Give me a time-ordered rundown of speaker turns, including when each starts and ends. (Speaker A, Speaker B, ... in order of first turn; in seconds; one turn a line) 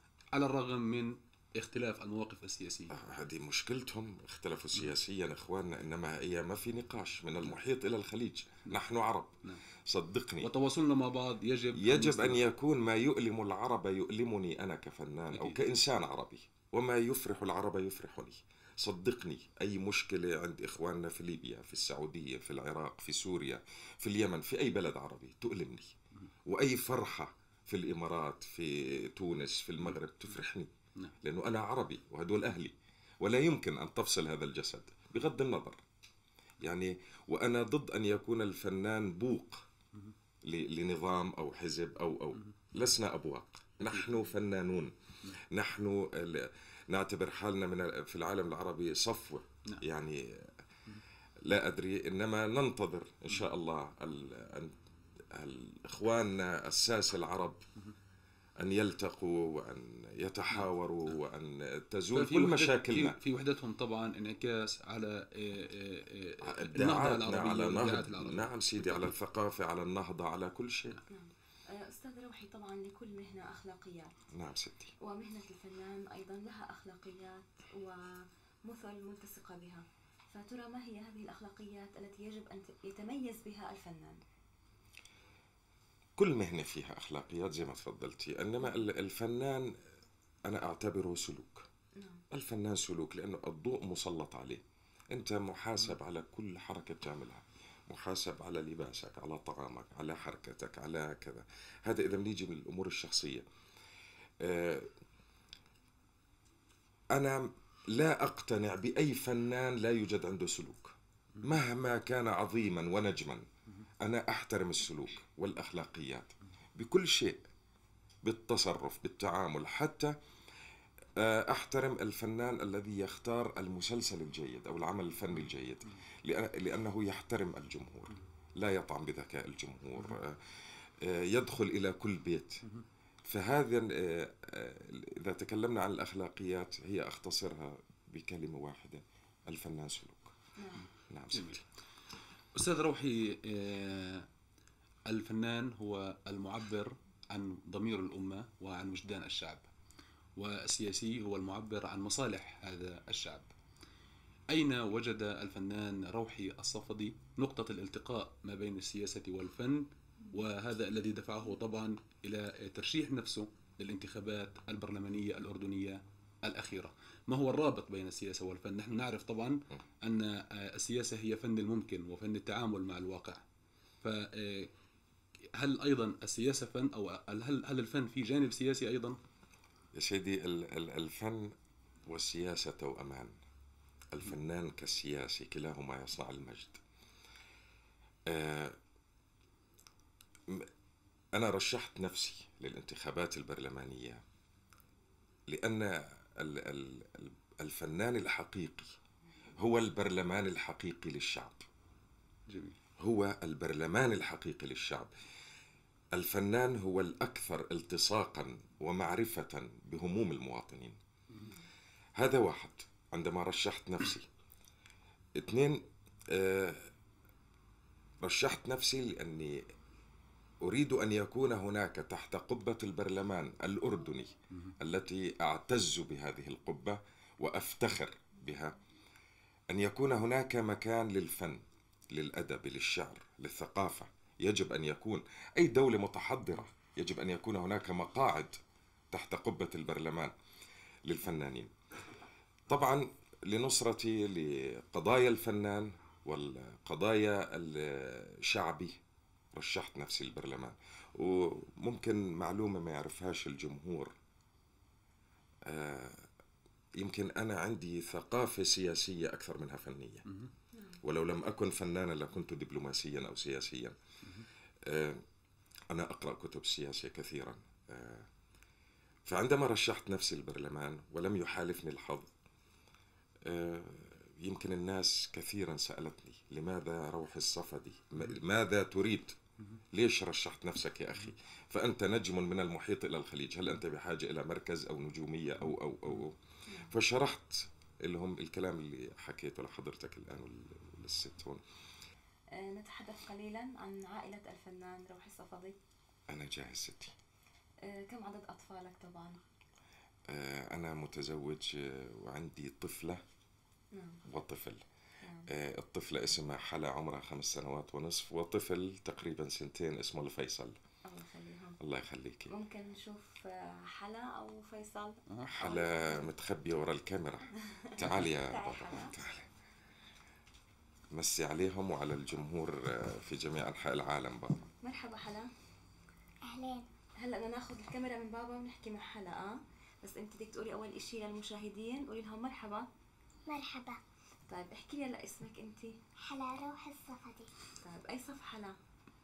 Speaker A: 0.3-2.9
Speaker B: 2.9-10.5
Speaker A: 10.4-12.4
Speaker B: 11.8-25.9
Speaker A: 15.3-15.6
Speaker B: 26.5-35.8
Speaker B: 36.6-39.7
Speaker B: 40.5-50.5
Speaker A: 43.8-44.3
Speaker B: 51.5-54.8
Speaker B: 55.3-57.6
Speaker B: 58.6-63.2
Speaker A: 62.1-69.1
Speaker B: 66.4-71.0
Speaker C: 71.1-74.1
Speaker B: 74.3-74.9
Speaker C: 75.0-78.1
Speaker C: 78.7-84.2
Speaker B: 86.2-89.7
Speaker B: 90.5-91.7
Speaker C: 92.0-92.2
Speaker B: 92.3-103.5
Speaker B: 104.4-104.9
Speaker B: 107.1-113.5
Speaker B: 114.0-117.4
Speaker B: 118.2-120.1
Speaker B: 121.2-130.4
Speaker B: 131.0-132.6
Speaker B: 133.3-140.3
Speaker B: 141.1-141.6
Speaker A: 141.3-141.6
Speaker A: 142.6-144.3
Speaker A: 145.1-149.7
Speaker A: 150.4-153.5
Speaker A: 154.5-173.4
Speaker A: 174.0-174.7
Speaker A: 175.6-179.2
Speaker B: 179.9-181.5
Speaker B: 182.1-183.4
Speaker B: 184.1-186.8
Speaker B: 188.3-188.8
Speaker B: 191.3-194.2
Speaker B: 195.5-198.9
Speaker B: 199.6-201.6
Speaker A: 202.5-202.8
Speaker B: 203.0-205.1
Speaker B: 206.1-211.0
Speaker B: 212.2-214.3
Speaker B: 215.4-216.9
Speaker B: 218.2-219.6
Speaker B: 220.6-228.8
Speaker B: 229.7-238.6
Speaker B: 239.1-240.3
Speaker B: 241.1-241.7
Speaker B: 242.7-249.0
Speaker B: 249.5-254.1
Speaker B: 255.7-256.2
Speaker B: 257.0-260.3
Speaker B: 261.0-263.9
Speaker B: 264.9-265.2
Speaker B: 265.9-268.3
Speaker B: 269.3-272.3
Speaker B: 273.4-279.4
Speaker B: 279.9-286.4
Speaker B: 286.9-291.6
Speaker C: 292.6-295.8
Speaker B: 296.3-297.1
Speaker C: 297.8-299.4
Speaker B: 300.3-303.2
Speaker C: 303.9-304.2
Speaker B: 304.3-304.8
Speaker B: 305.5-310.8
Speaker C: 311.1-311.8
Speaker B: 311.8-312.5
Speaker C: 312.5-316.3
Speaker B: 315.5-319.5
Speaker C: 318.2-319.2
Speaker B: 321.1-324.6
Speaker C: 324.8-325.5
Speaker D: 326.5-326.9
Speaker C: 327.2-332.9
Speaker D: 333.5-334.0
Speaker C: 334.5-335.9
Speaker D: 336.3-337.5
Speaker C: 337.8-338.8